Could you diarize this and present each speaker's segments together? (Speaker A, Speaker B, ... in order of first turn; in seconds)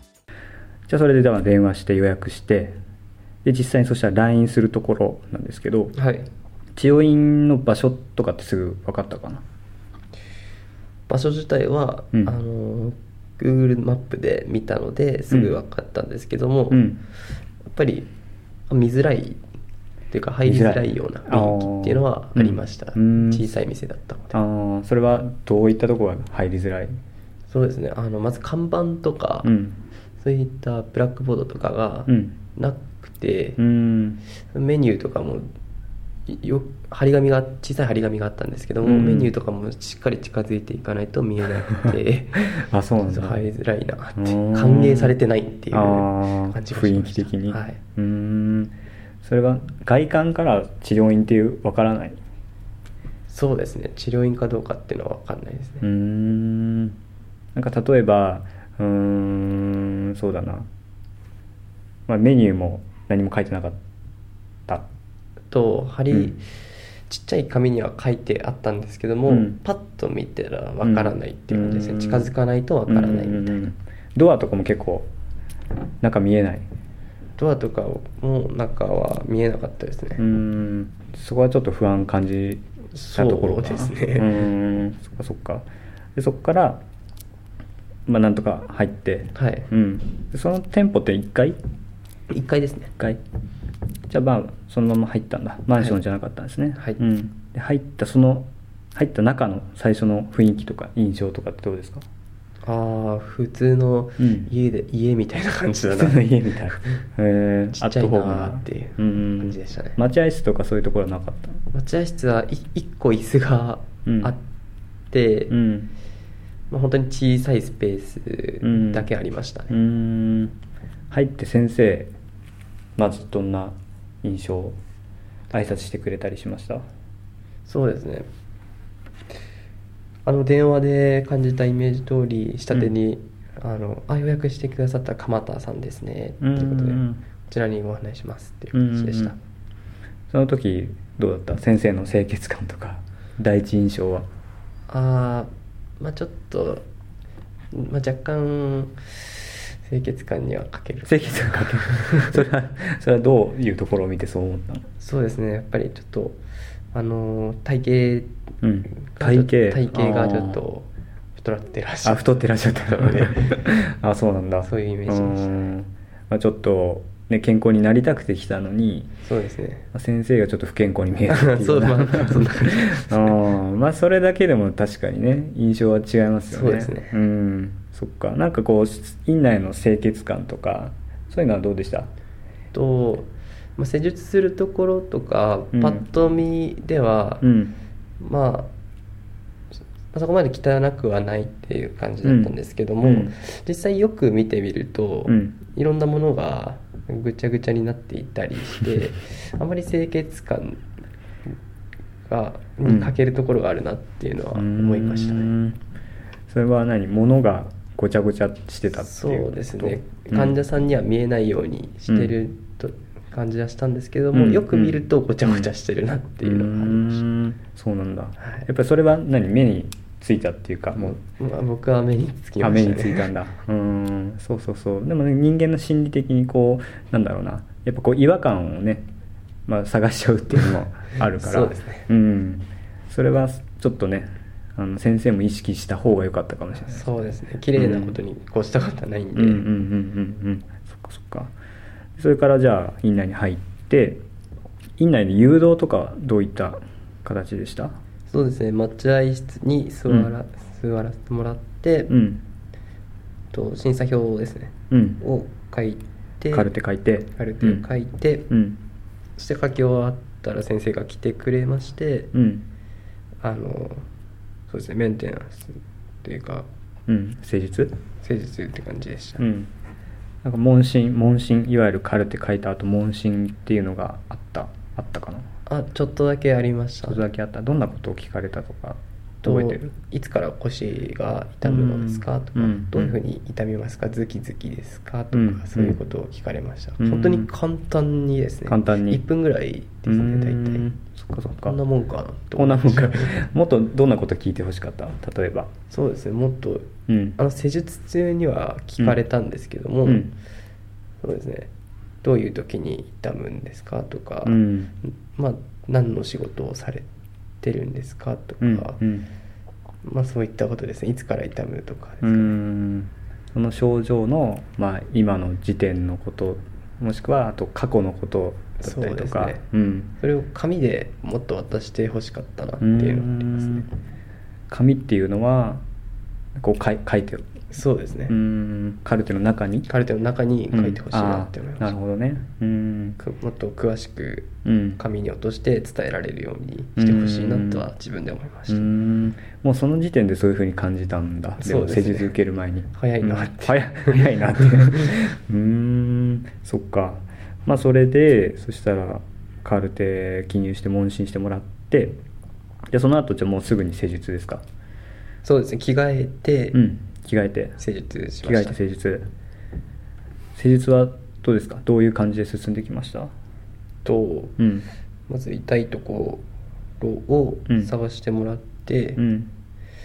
Speaker A: 0.9-2.8, 3.4-5.9, 6.8-9.4, 16.7-17.0, 20.4-23.5, 24.3-27.0, 29.4-29.8, 32.1-32.4, 33.6-34.2, 38.8-39.3, 42.5-43.4, 44.1-45.1, 45.7-52.2, 55.8-57.0, 57.5-60.7, 62.1-63.8, 69.3-69.6, 70.8-72.3, 72.9-75.1, 76.0-76.7, 80.2-86.8, 88.1-91.6, 94.1-102.0, 104.2-104.5, 105.9-111.6, 114.0-114.3, 115.5-115.9, 118.6-119.1, 119.7-120.5, 121.1-122.1, 123.0-124.8, 125.5-126.8, 136.4-137.2, 138.7-139.3, 140.3-144.3, 151.1-154.8, 158.6-160.6, 162.0-169.1, 169.9-182.1, 185.7-186.0, 187.4-187.7, 192.2-193.3, 195.3-195.6, 202.8-203.1, 204.5-205.8, 206.5-210.6, 212.1-212.3, 214.3-215.7, 216.4-221.2, 222.6-229.1, 229.7-237.1, 237.8-238.2, 239.3-241.5, 242.2-244.2, 245.0-248.0, 252.1-252.4, 254.9-255.2, 256.5-257.8, 258.5-258.8, 262.3-262.7, 267.1-267.9, 269.4-269.7, 270.4-275.4, 277.1-279.8, 281.6-283.1, 285.3-286.0, 287.0-287.5, 288.6-289.2, 290.1-291.8, 292.6-295.7, 297.1-297.4, 300.1-300.3, 304.4-304.9, 308.6-309.3, 312.2-320.1, 322.8-323.9, 324.7-325.8, 326.6-327.5, 328.3-329.9, 330.7-333.2, 334.6-335.0, 337.0-337.9, 338.7-352.2, 352.9-354.6, 356.7-357.8, 358.4-359.3, 360.5-363.3, 364.6-364.9, 369.2-369.5
Speaker B: 5.9-6.2, 11.1-16.8, 17.7-18.1, 18.7-19.4, 20.1-24.4, 27.5-29.5, 30.2-33.6, 34.5-35.5, 36.3-47.8, 53.3-55.9, 65.5-66.5, 67.1-73.6, 77.4-80.2, 82.9-84.4, 89.3-89.7, 92.3-92.9, 102.6-106.9, 107.7-110.0, 111.7-114.4, 115.1-115.5, 116.7-119.8, 127.6-128.3, 130.2-139.4, 144.9-146.8, 147.7-152.4, 155.0-156.4, 156.9-158.3, 158.9-163.7, 164.6-165.7, 169.2-169.8, 171.3-173.4, 176.5-177.1, 182.7-187.4, 188.2-188.7, 190.1-200.8, 202.3-205.5, 208.9-217.2, 218.4-218.7, 220.9-223.3, 231.3-232.1, 236.8-239.6, 248.3-252.1, 253.5-256.7, 257.3-258.5, 259.4-262.3, 263.4-264.1, 264.7-266.7, 268.2-269.4, 275.7-277.2, 279.4-290.9, 291.6-293.3, 295.9-300.3, 301.2-301.7, 302.2-307.1, 307.6-309.0, 310.0-312.6, 318.8-319.6, 320.2-323.9, 327.7-328.3, 329.9-331.9, 333.2-338.9, 341.6-342.3, 342.9-345.1, 355.4-356.8, 357.8-358.8, 364.0-364.6, 365.3-366.4, 367.0-369.2